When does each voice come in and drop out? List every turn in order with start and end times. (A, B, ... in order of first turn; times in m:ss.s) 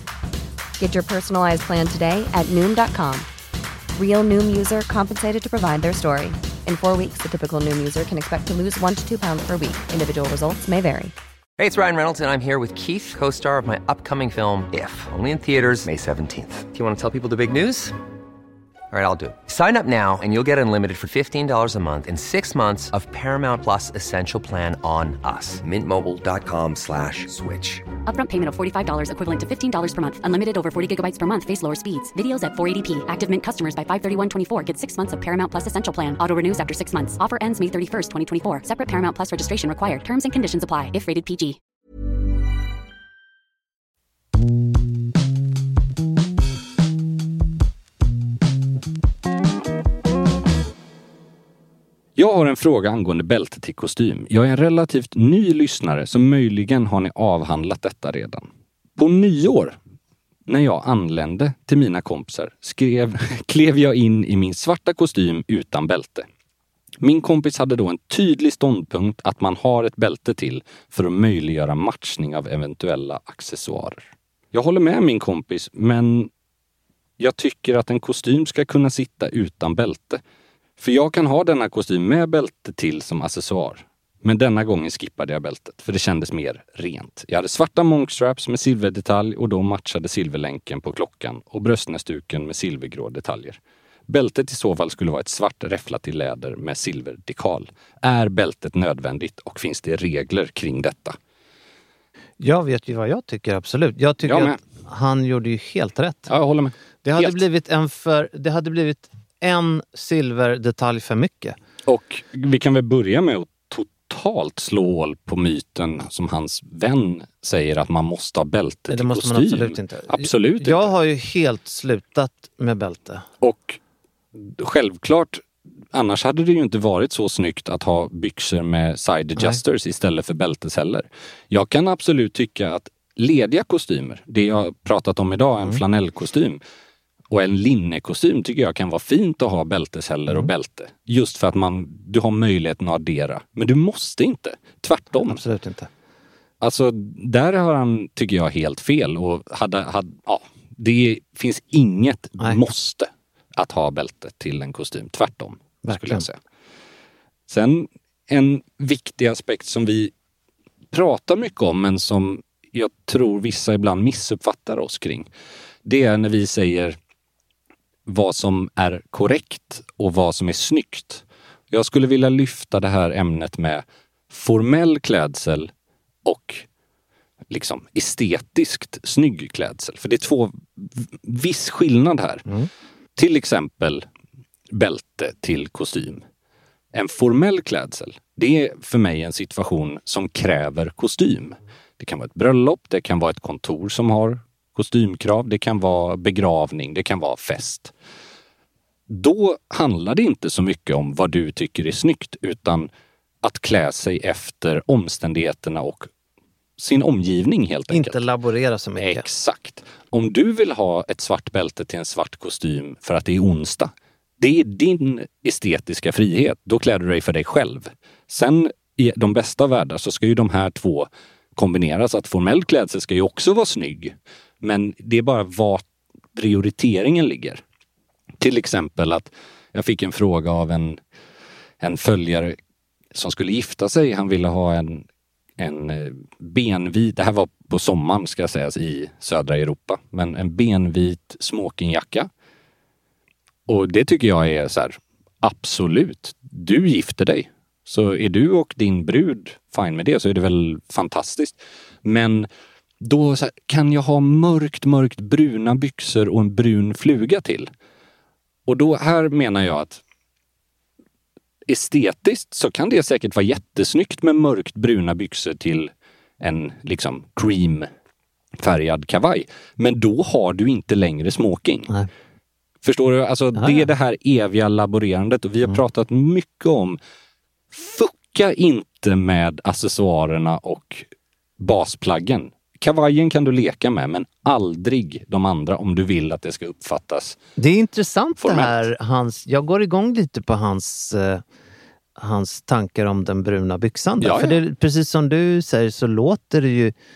0:00.8-0:03.3 A
0:04.0-0:11.1 A
0:11.6-0:17.9 B
0:18.9-0:27.9 B
0:28.1-0:41.6 C
0:52.2-0:59.8 D
1:00.5-1:06.3 D
1:07.0-1:16.3 D
1:17.2-1:20.2 D
1:20.8-1:41.2 D
1:42.4-1:46.3 E
1:44.2-1:44.6 D
1:46.3-1:47.4 D
1:47.0-1:51.6 E
1:51.9-2:00.9 D
1:58.9-2:03.2 E
2:03.4-2:03.8 D
2:04.3-2:16.6 D
2:17.3-2:25.4 D
2:25.2-2:25.9 E
2:26.6-2:36.4 D
2:35.8-2:36.3 E
2:37.5-2:40.1 D
2:40.9-2:45.3 D
2:45.8-2:47.0 D
2:48.1-2:55.7 D
2:56.2-2:56.7 D
2:57.5-3:02.5 D
3:03.2-3:04.0 D
3:04.7-3:06.2 D
3:06.9-3:17.9 D
3:19.1-3:22.9 D
3:23.4-3:26.1 D
3:26.8-3:28.3 D
3:27.9-3:29.2 E
3:29.0-3:47.6 D
3:48.4-3:51.0 D
3:51.8-3:52.6 D
3:53.1-3:55.1 D
3:55.6-4:02.3 D
4:03.7-4:17.7 D
4:18.7-4:20.0 D
4:21.7-4:27.9 D
4:28.6-4:31.9 D
4:32.8-4:37.0 D
4:33.6-4:33.8 E
4:37.7-4:47.4 D
4:47.6-4:51.4 E
4:48.4-4:48.9 D
4:52.2-4:56.9 E
4:54.2-4:54.6 D